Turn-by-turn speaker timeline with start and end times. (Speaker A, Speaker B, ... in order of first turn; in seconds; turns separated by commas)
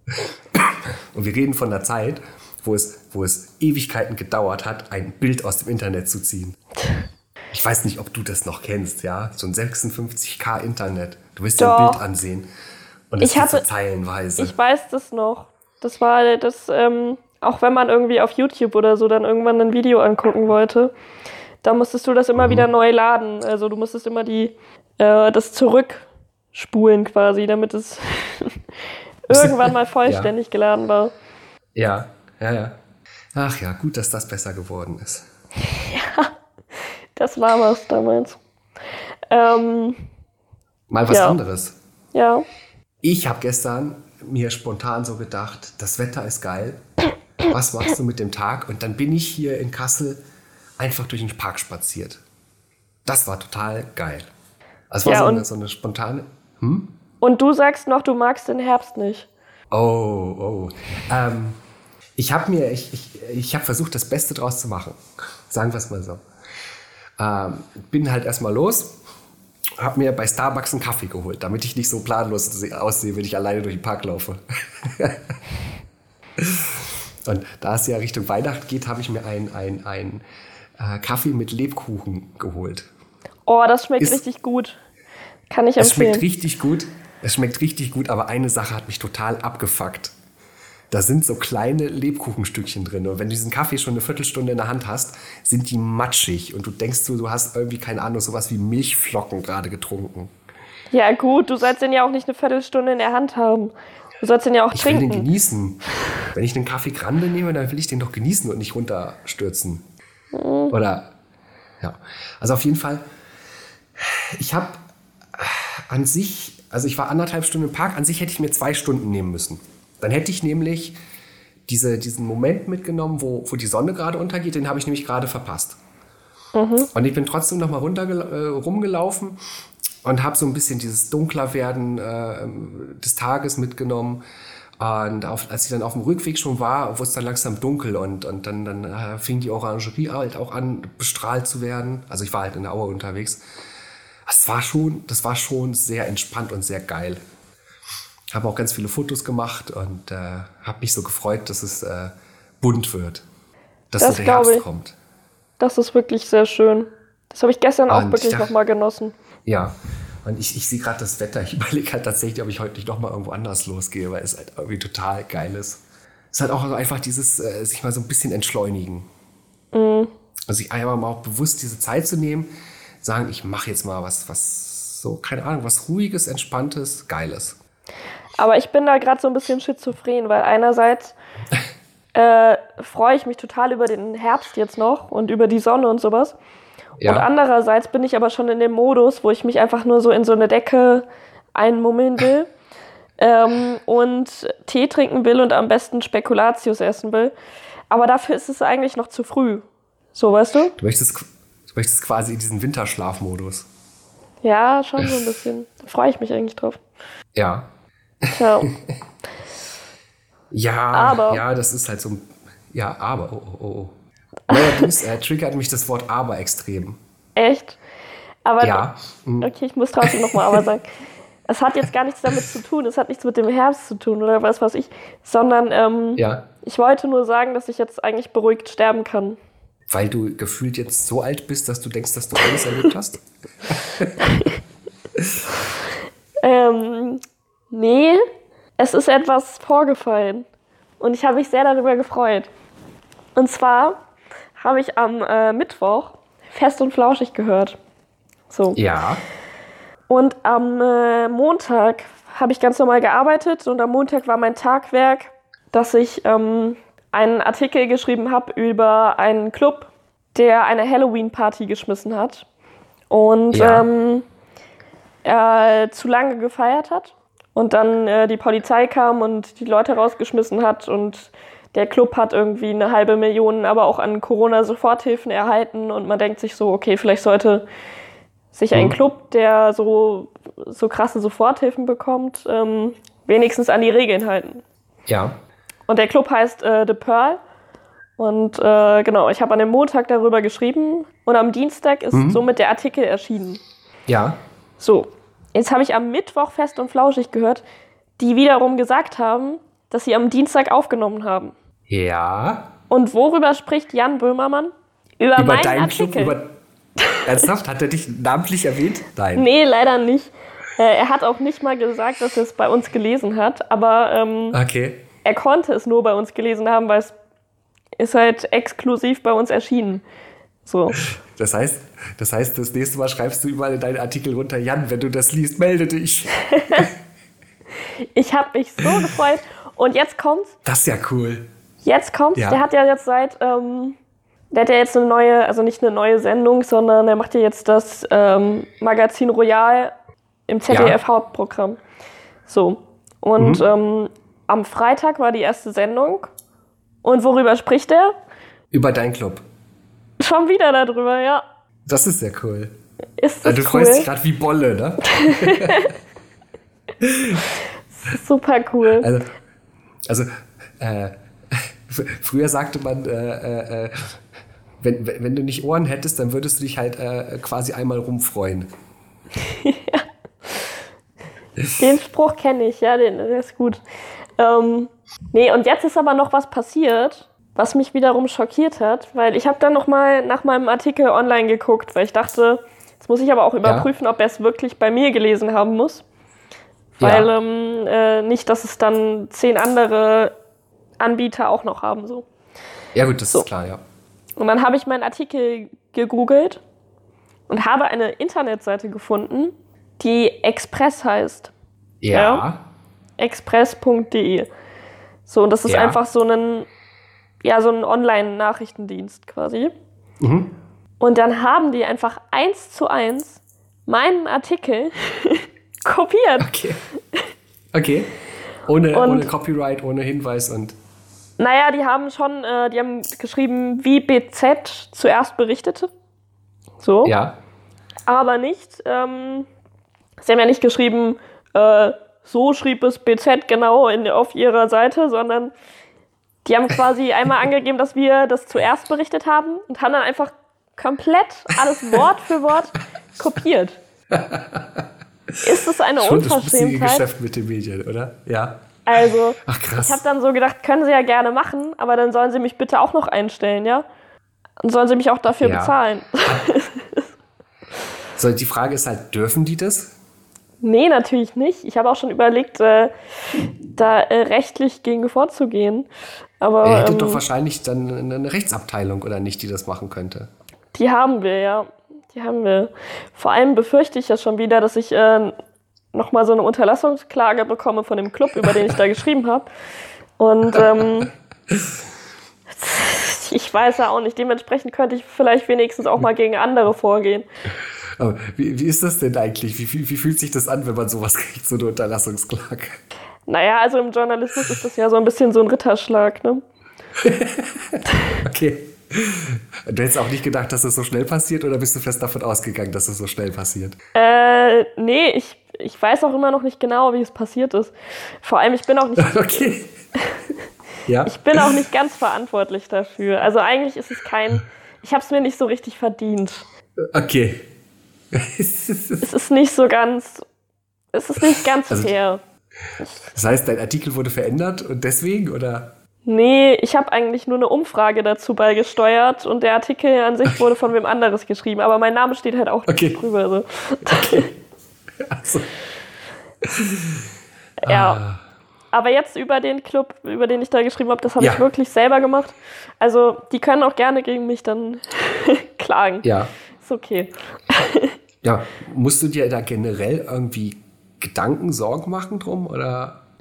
Speaker A: 0.1-6.6, Speaker A: 7.5-12.5, Speaker B: 11.6-12.0, Speaker A: 13.1-14.6, Speaker B: 13.2-13.6, Speaker B: 14.4-20.9, Speaker B: 21.6-28.6, Speaker A: 22.4-22.7, Speaker B: 29.3-31.1, Speaker A: 29.3-30.3, Speaker A: 31.8-32.8, Speaker A: 33.3-35.3, Speaker B: 35.7-36.3, Speaker B: 37.2-38.4, Speaker B: 39.3-40.0, Speaker A: 40.9-41.8, Speaker B: 41.1-41.4, Speaker B: 42.1-42.5, Speaker A: 43.0-46.8, Speaker A: 47.4-50.2, Speaker A: 50.8-52.2, Speaker A: 53.1-54.3, Speaker A: 54.9-57.0, Speaker B: 55.0-55.5, Speaker B: 57.2-59.3, Speaker A: 59.7-61.6, Speaker A: 62.2-66.2, Speaker A: 67.2-69.0, Speaker A: 69.8-75.3, Speaker A: 76.4-80.2, Speaker A: 80.8-82.9, Speaker B: 83.5-84.8, Speaker B: 85.5-86.2, Speaker A: 85.8-90.1, Speaker A: 90.9-100.3, Speaker B: 100.9-105.2, Speaker A: 104.7-105.8, Speaker A: 106.3-109.8, Speaker B: 110.3-110.7, Speaker A: 110.7-111.1, Speaker A: 111.8-113.0, Speaker A: 114.0-114.8, Speaker A: 115.3-121.0, Speaker A: 121.7-125.8, Speaker B: 126.5-126.9, Speaker A: 126.9-129.4, Speaker A: 130.0-134.2, Speaker A: 134.8-143.4, Speaker A: 144.3-147.2, Speaker A: 148.3-153.2, Speaker A: 153.9-155.0, Speaker B: 154.0-154.6, Speaker B: 155.6-159.1, Speaker A: 157.9-158.5, Speaker A: 159.4-169.1, Speaker B: 169.7-170.1, Speaker A: 170.5-172.5, Speaker A: 173.0-177.6, Speaker B: 178.4-181.2, Speaker B: 182.2-186.4, Speaker A: 187.0-187.3, Speaker B: 187.1-192.5, Speaker B: 193.2-197.3, Speaker B: 197.9-200.8, Speaker A: 200.8-203.7, Speaker B: 204.4-206.8, Speaker A: 207.3-207.7, Speaker A: 208.2-208.9, Speaker B: 208.3-208.7, Speaker A: 210.5-213.9, Speaker B: 210.9-211.4, Speaker B: 214.5-214.9, Speaker A: 214.5-217.0, Speaker B: 217.4-217.8, Speaker B: 218.4-218.8, Speaker A: 218.6-219.5, Speaker B: 219.4-220.8, Speaker A: 220.0-220.6, Speaker B: 221.5-229.4, Speaker A: 226.2-226.4, Speaker A: 229.9-234.5, Speaker B: 234.2-234.5, Speaker A: 235.2-235.4, Speaker B: 236.4-238.2, Speaker B: 238.8-240.5, Speaker B: 241.0-242.5, Speaker B: 243.3-244.0, Speaker B: 244.6-247.8, Speaker B: 248.5-248.8, Speaker A: 248.8-249.2, Speaker B: 250.1-262.5, Speaker B: 263.1-264.2, Speaker A: 263.5-263.9, Speaker B: 265.2-277.7, Speaker B: 278.5-284.6, Speaker A: 285.1-285.4, Speaker B: 285.9-287.4, Speaker B: 288.2-293.6, Speaker A: 292.1-292.4, Speaker A: 294.1-294.4, Speaker B: 294.8-297.6, Speaker B: 298.2-301.5, Speaker A: 301.9-302.7, Speaker B: 302.9-306.4, Speaker A: 305.4-306.5, Speaker B: 307.0-307.4, Speaker A: 307.2-309.5, Speaker B: 309.4-314.6, Speaker A: 314.5-315.0, Speaker B: 315.2-317.1, Speaker B: 318.0-320.0, Speaker B: 320.7-321.0, Speaker A: 320.9-326.9, Speaker B: 326.5-326.9, Speaker B: 328.1-330.6, Speaker A: 328.8-329.1, Speaker A: 330.6-331.5, Speaker B: 331.8-334.0, Speaker A: 332.4-332.6, Speaker B: 334.5-339.9, Speaker B: 340.5-341.8, Speaker A: 340.7-341.0, Speaker B: 342.5-346.3, Speaker A: 343.4-343.7, Speaker B: 347.0-348.1, Speaker A: 348.7-349.4, Speaker B: 350.2-351.4, Speaker A: 351.9-352.7, Speaker B: 353.2-354.1, Speaker A: 353.4-355.9, Speaker B: 355.2-355.9, Speaker A: 357.0-357.5, Speaker B: 357.9-359.1, Speaker A: 358.9-359.3, Speaker A: 360.1-364.2, Speaker A: 364.8-368.7, Speaker B: 369.5-370.7, Speaker B: 371.8-373.8, Speaker B: 374.4-386.1, Speaker A: 383.6-383.9, Speaker B: 387.0-390.3, Speaker A: 387.0-387.3, Speaker B: 391.0-392.3, Speaker A: 392.9-393.8, Speaker B: 394.4-396.6, Speaker B: 397.5-401.5, Speaker A: 402.0-402.6, Speaker B: 402.1-402.4, Speaker B: 403.2-404.5, Speaker B: 405.3-406.7, Speaker A: 405.7-406.0, Speaker B: 407.4-409.7, Speaker A: 410.2-410.5, Speaker B: 411.0-416.5, Speaker A: 416.4-416.8, Speaker A: 417.7-418.1, Speaker A: 418.7-420.8, Speaker B: 418.9-419.3, Speaker B: 421.4-425.9, Speaker B: 426.8-427.1, Speaker A: 427.1-427.4, Speaker B: 428.1-429.5, Speaker B: 430.2-435.5, Speaker B: 436.4-443.8, Speaker A: 444.1-444.8, Speaker B: 445.4-447.1, Speaker A: 445.9-448.6, Speaker B: 448.9-453.9, Speaker A: 449.4-450.0, Speaker B: 454.6-457.0, Speaker A: 455.4-456.5, Speaker A: 458.2-459.9, Speaker B: 460.6-462.9, Speaker B: 463.7-465.9, Speaker B: 466.4-467.2, Speaker A: 466.6-470.3, Speaker B: 470.8-475.4, Speaker B: 475.9-479.5, Speaker B: 480.2-481.1, Speaker A: 481.5-481.8, Speaker B: 482.5-487.3, Speaker A: 488.0-492.8, Speaker B: 493.3-496.4, Speaker A: 497.0-503.8, Speaker B: 503.9-510.2, Speaker A: 509.0-509.7, Speaker A: 510.9-511.6, Speaker B: 511.1-516.5, Speaker A: 516.9-517.5, Speaker A: 518.1-519.0, Speaker B: 519.0-520.2, Speaker B: 520.9-522.2, Speaker A: 523.1-525.7, Speaker B: 526.0-534.3, Speaker A: 532.7-533.0, Speaker A: 533.9-534.3, Speaker A: 535.0-535.5, Speaker A: 536.4-537.1, Speaker A: 537.6-538.2, Speaker B: 537.6-538.0, Speaker B: 538.7-546.1, Speaker A: 541.2-541.4, Speaker A: 546.0-546.3, Speaker B: 546.6-547.9, Speaker A: 548.2-553.0